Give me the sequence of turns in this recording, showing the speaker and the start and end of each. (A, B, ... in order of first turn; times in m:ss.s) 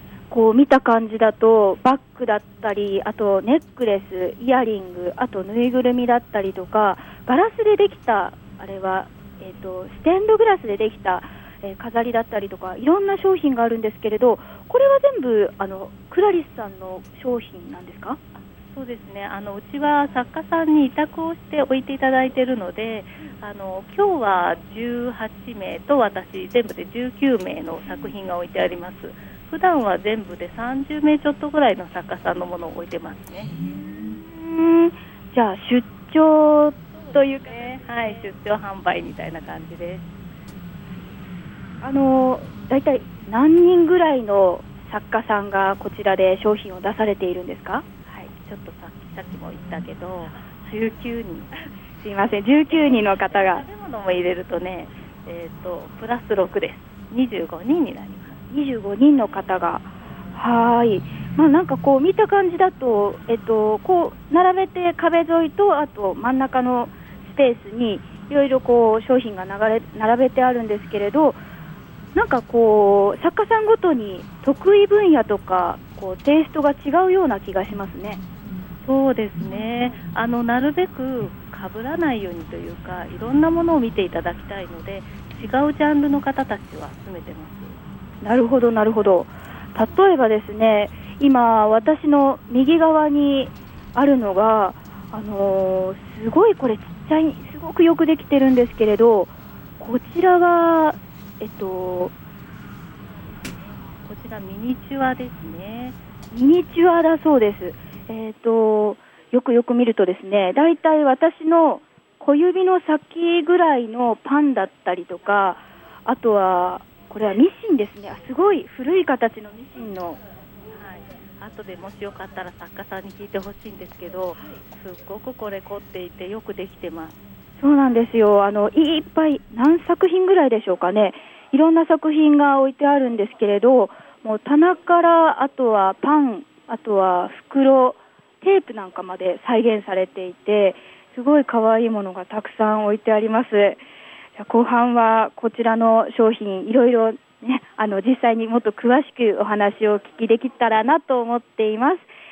0:00.3-0:18.2 A
0:18.7-0:33.8 B
0:34.3-0:37.8 A
0:37.1-0:40.0 B
0:41.8-0:47.9 A
0:48.1-0:51.6 B
0:52.0-0:53.6 A
0:52.7-0:58.4 B
0:58.5-1:11.4 A
1:12.2-1:18.2 A
1:18.8-1:27.8 B
1:28.2-1:42.1 A
1:44.0-1:46.0 B
1:46.3-2:00.2 A
2:00.7-2:07.2 B
2:07.6-2:23.8 A
2:24.4-2:32.1 A